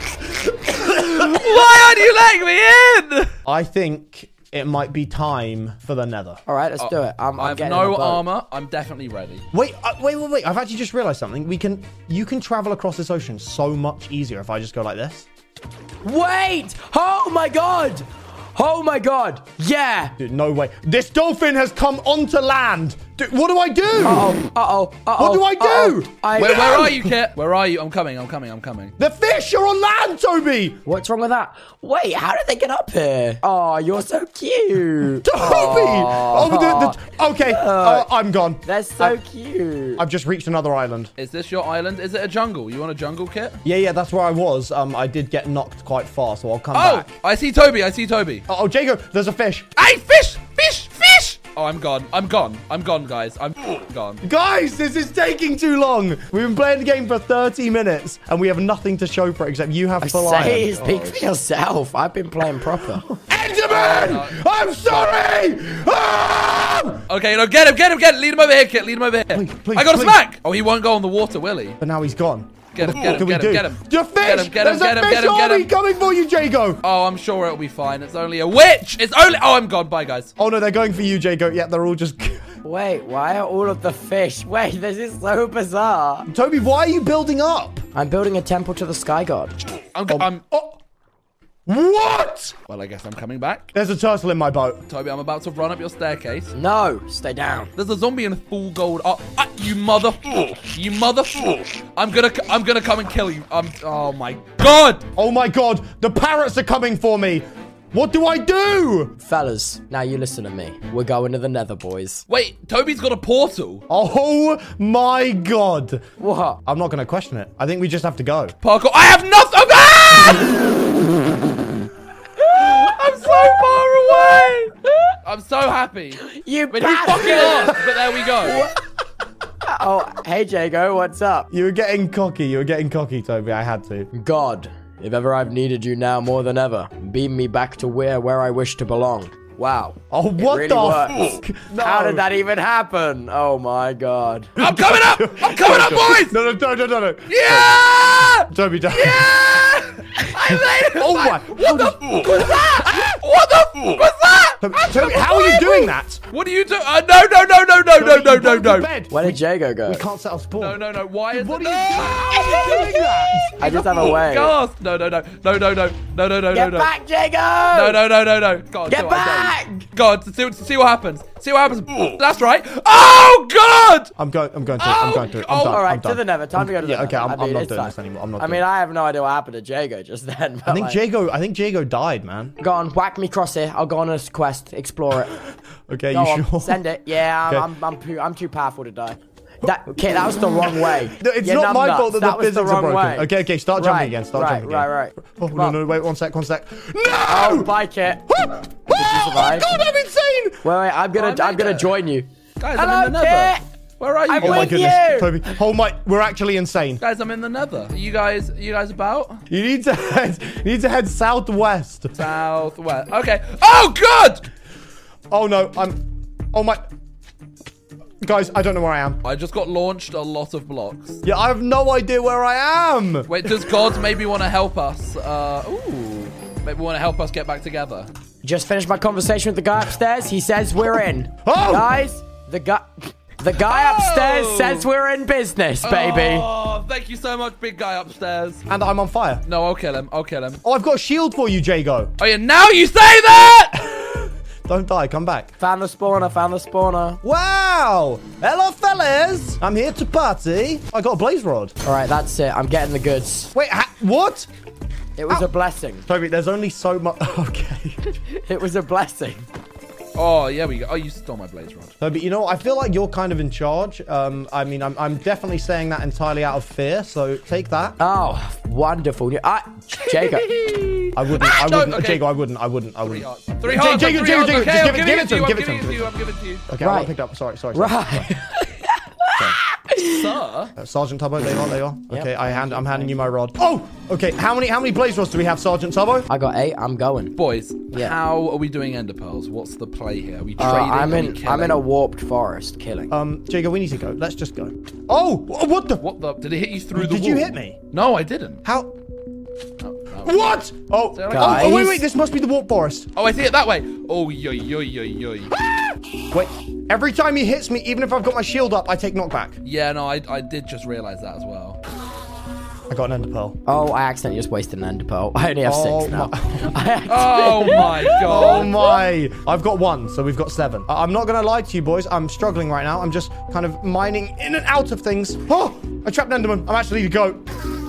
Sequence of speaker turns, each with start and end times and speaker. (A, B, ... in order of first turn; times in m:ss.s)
0:00.4-0:03.3 A
0:03.5-0:06.4 B
0:06.5-0:08.2 C
0:06.8-0:09.4 A
0:09.5-0:15.3 B
0:16.0-0:20.2 C
0:20.2-0:24.4 B
0:24.0-0:26.9 C
0:25.2-0:27.0 B
0:26.3-0:29.0 A
0:29.0-0:30.8 B
0:30.8-0:38.1 C
0:35.2-0:39.2 B
0:38.6-0:40.0 C
0:40.0-0:41.1 B
0:41.2-0:43.6 A
0:43.6-0:47.1 B
0:46.7-0:48.5 A
0:48.5-0:49.7 B
0:49.8-0:54.2 A
0:54.2-1:01.0 B
1:00.0-1:03.1 C
1:00.7-1:01.2 A
1:03.1-1:07.1 B
1:03.7-1:04.4 A
1:07.1-1:11.8 A
1:09.3-1:10.2 B
1:11.8-1:16.8 B
1:12.7-1:15.7 A
1:16.8-1:20.3 A
1:20.4-1:22.5 B
1:22.6-1:26.3 C
1:26.3-1:27.8 B
1:27.9-1:29.6 C
1:30.0-1:30.4 A
1:30.1-1:30.8 B
1:31.7-1:32.6 B
1:32.7-1:33.7 A
1:33.7-1:34.8 B
1:34.9-1:36.5 A
1:36.5-1:37.7 C
1:37.8-1:45.1 A
1:45.2-1:49.2 B
1:49.2-1:52.2 C
1:52.3-1:53.9 A
1:53.9-1:56.0 B
1:56.2-1:56.6 C
1:56.6-1:58.6 B
1:58.6-2:00.8 A
2:02.4-2:08.7 A
2:04.9-2:05.2 C
2:06.2-2:08.8 C
2:09.7-2:11.5 C
2:11.5-2:14.1 B
2:14.1-2:24.6 C
2:20.1-2:22.2 B
2:24.6-2:29.4 B
2:24.6-2:26.4 A
2:27.3-2:38.9 A
2:30.9-2:32.4 B
2:34.6-2:36.2 B
2:38.0-2:43.6 B
2:39.1-2:40.1 C
2:40.6-2:42.8 A
2:42.4-2:44.6 C
2:43.6-2:46.9 A
2:46.5-2:48.0 C
2:47.7-2:54.1 A
2:48.9-2:49.9 C
2:54.2-2:58.6 B
2:54.8-2:55.9 A
2:55.6-3:01.0 C
3:00.7-3:02.6 B
3:02.6-3:05.4 C
3:05.9-3:06.8 B
3:06.1-3:15.8 C
3:11.2-3:17.7 B
3:17.3-3:18.3 C
3:18.3-3:20.6 B
3:18.9-3:19.7 C
3:20.6-3:23.6 C
3:21.1-3:22.0 A
3:22.6-3:24.9 A
3:24.3-3:25.6 C
3:24.4-3:27.0 B
3:27.0-3:29.4 A
3:29.5-3:32.2 B
3:32.1-3:34.5 A
3:35.3-3:36.8 B
3:38.2-3:39.2 B
3:39.2-3:41.2 A
3:41.2-3:43.5 B
3:43.3-3:48.1 A
3:48.4-3:56.5 C
3:51.4-3:51.9 B
3:53.6-3:54.9 A
3:55.8-3:58.6 A
3:58.7-3:59.4 B
3:59.5-4:00.6 A
4:00.6-4:02.1 B
4:02.2-4:03.8 A
4:03.9-4:05.5 B
4:05.6-4:07.2 C
4:07.2-4:11.8 B
4:11.8-4:13.5 C
4:13.5-4:14.5 B
4:15.2-4:16.1 C
4:16.1-4:18.2 B
4:18.3-4:19.5 C
4:20.2-4:21.9 A
4:22.0-4:28.0 B
4:28.0-4:30.5 C
4:30.1-4:32.3 A
4:31.1-4:36.2 B
4:33.0-4:36.7 A
4:36.7-4:38.3 B
4:36.8-4:37.1 C
4:37.7-4:40.4 C
4:40.0-4:40.7 A
4:40.8-4:46.3 B
4:42.1-4:43.2 C
4:46.3-4:47.4 C
4:47.4-4:51.8 A
4:47.9-4:48.2 C
4:50.6-4:53.1 C
4:53.1-4:56.0 B
4:56.0-4:58.6 A
4:56.9-4:57.8 B
4:58.6-4:58.9 B
4:59.8-5:00.5 A
5:00.2-5:03.1 B
5:01.2-5:01.8 A
5:01.3-5:02.0 C
5:03.2-5:05.5 A
5:05.7-5:09.6 B
5:09.6-5:11.8 A
5:12.9-5:13.6 B
5:13.7-5:18.3 C
5:15.6-5:16.7 B
5:17.1-5:19.0 A
5:17.6-5:27.4 B